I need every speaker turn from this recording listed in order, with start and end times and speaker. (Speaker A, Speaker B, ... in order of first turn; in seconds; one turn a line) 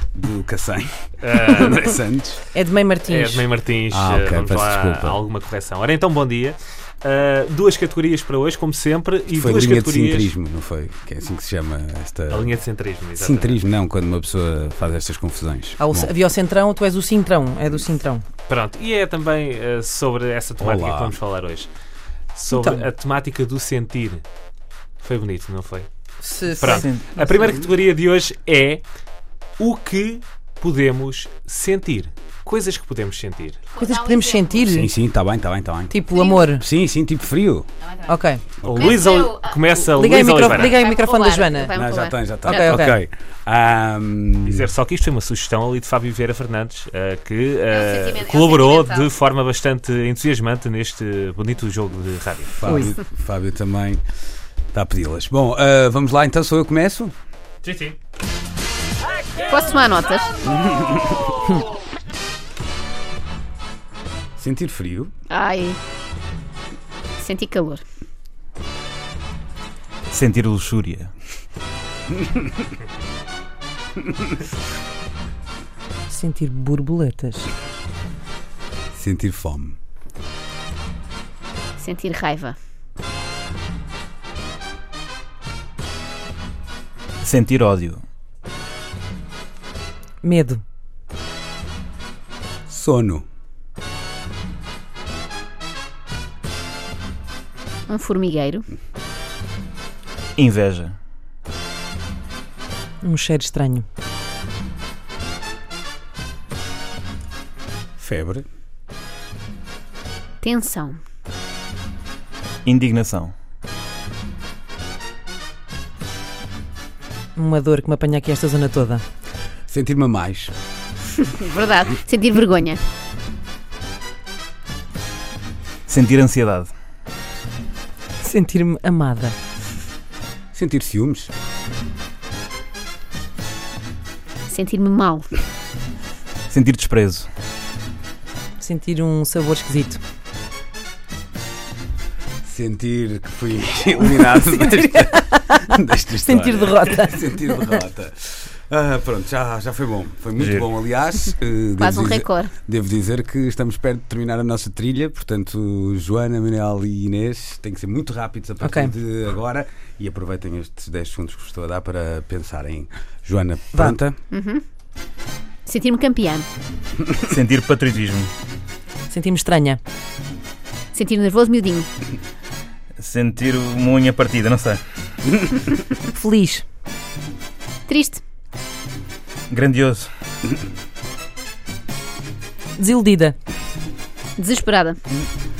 Speaker A: 0.1-2.4
Speaker B: 1.2-2.0
Speaker C: 2.5-3.5
Speaker B: 3.1-10.3
Speaker A: 3.9-5.2
Speaker A: 9.3-12.6
Speaker B: 12.3-13.6
Speaker A: 13.2-16.1
Speaker C: 15.8-18.2
Speaker B: 18.5-21.7
Speaker A: 20.6-21.2
Speaker B: 22.4-24.2
Speaker C: 22.5-22.8
Speaker B: 25.0-25.9
Speaker C: 26.2-26.9
Speaker B: 26.6-28.8
Speaker D: 26.6-27.2
Speaker B: 29.6-33.6
Speaker E: 33.7-34.7
Speaker C: 33.8-34.9
Speaker A: 34.7-36.0
Speaker C: 35.9-36.6
Speaker E: 36.1-36.5
Speaker A: 36.5-37.7
Speaker E: 37.9-38.1
Speaker C: 38.1-38.4
Speaker A: 38.6-39.0
Speaker B: 38.6-40.8
Speaker E: 38.8-42.8
Speaker C: 39.9-41.8
Speaker A: 41.8-44.7
Speaker C: 42.5-43.0
Speaker B: 44.5-52.6
Speaker E: 47.7-49.1
Speaker A: 52.6-54.0
Speaker C: 52.6-52.9
Speaker A: 54.7-57.1
Speaker B: 57.6-58.0
Speaker E: 59.5-60.4
Speaker A: 60.5-61.3
Speaker A: 64.4-65.1
Speaker E: 65.3-65.8
Speaker E: 67.2-67.8
Speaker D: 70.1-71.1
Speaker C: 76.1-77.5
Speaker A: 78.9-79.8
Speaker E: 81.8-82.6
Speaker D: 87.2-88.0
Speaker C: 90.2-90.6
Speaker A: 92.7-93.2
Speaker E: 97.9-98.7
Speaker D: 100.4-101.0
Speaker C: 103.0-103.9
Speaker A: 108.0-108.5
Speaker E: 110.4-111.0
Speaker D: 112.7-113.3
Speaker C: 117.4-119.0
Speaker A: 119.7-120.5
Speaker E: 121.2-122.8
Speaker D: 125.9-126.7
Speaker C: 128.2-129.3
Speaker A: 130.5-131.3
Speaker E: 134.5-135.3
Speaker D: 136.5-137.3
Speaker C: 138.6-140.0
Speaker A: 142.4-164.2
Speaker C: 144.4-145.7
Speaker C: 146.2-147.8
Speaker D: 150.4-150.7
Speaker E: 151.8-152.5
Speaker C: 158.6-158.9
Speaker E: 164.3-164.6
Speaker E: 165.7-166.5
Speaker D: 167.2-168.3
Speaker C: 169.1-169.8
Speaker E: 170.9-171.9
Speaker D: 173.0-174.8
Speaker C: 176.1-176.6
Speaker E: 177.9-178.2
Speaker D: 179.5-180.1
Speaker C: 182.8-183.3
Speaker E: 184.4-185.0